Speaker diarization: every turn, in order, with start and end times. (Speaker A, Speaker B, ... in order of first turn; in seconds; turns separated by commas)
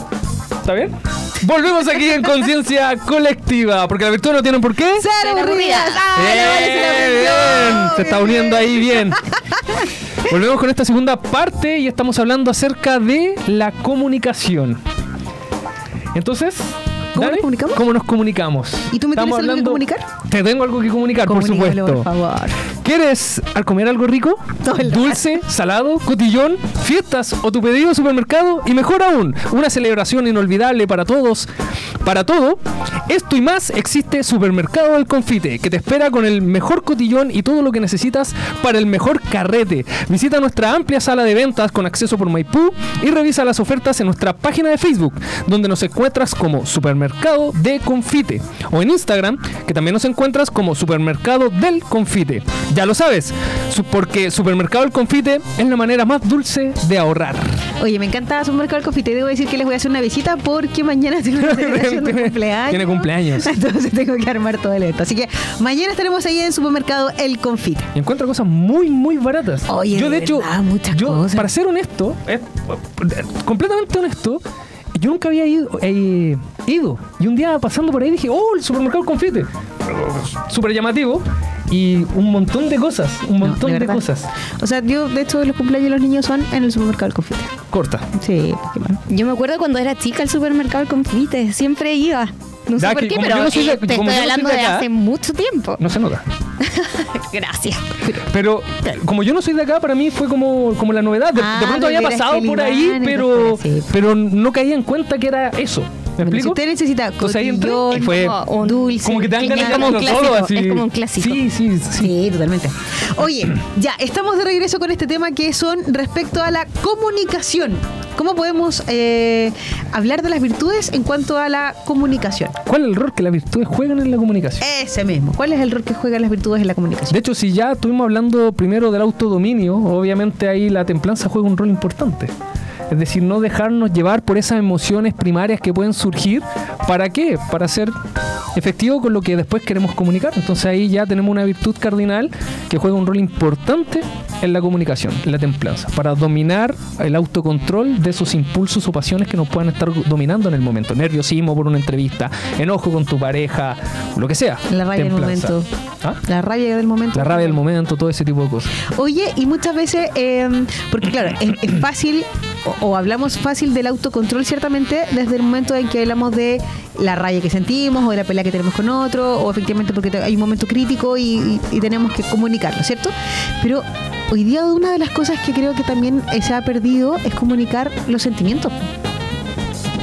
Speaker A: 0.6-5.1, Speaker B: 5.0-9.9, Speaker C: 5.2-6.0, Speaker A: 6.2-9.2, Speaker A: 10.2-14.8, Speaker A: 16.1-22.1, Speaker B: 17.1-17.9, Speaker B: 18.9-20.1, Speaker B: 21.2-22.6, Speaker A: 22.8-31.5, Speaker B: 24.6-25.4, Speaker A: 32.0-57.6, Speaker B: 57.8-67.9, Speaker A: 61.4-63.5, Speaker A: 68.0-74.4, Speaker B: 69.7-71.5, Speaker A: 75.0-84.3, Speaker B: 83.4-84.0, Speaker B: 84.6-87.6, Speaker A: 87.7-88.1, Speaker B: 88.1-89.0, Speaker C: 89.1-95.8, Speaker A: 92.8-94.9, Speaker A: 95.8-96.2, Speaker C: 96.6-98.0, Speaker A: 98.1-106.6, Speaker B: 101.3-103.9, Speaker B: 106.2-110.1, Speaker A: 107.2-108.4, Speaker C: 107.9-111.4, Speaker A: 109.0-112.1, Speaker B: 112.0-122.6, Speaker A: 122.7-124.6, Speaker B: 124.6-127.2, Speaker A: 127.1-132.3, Speaker A: 132.9-137.9, Speaker A: 138.6-156.2, Speaker B: 154.7-155.7, Speaker B: 156.2-157.6, Speaker A: 157.2-158.8, Speaker B: 158.9-178.8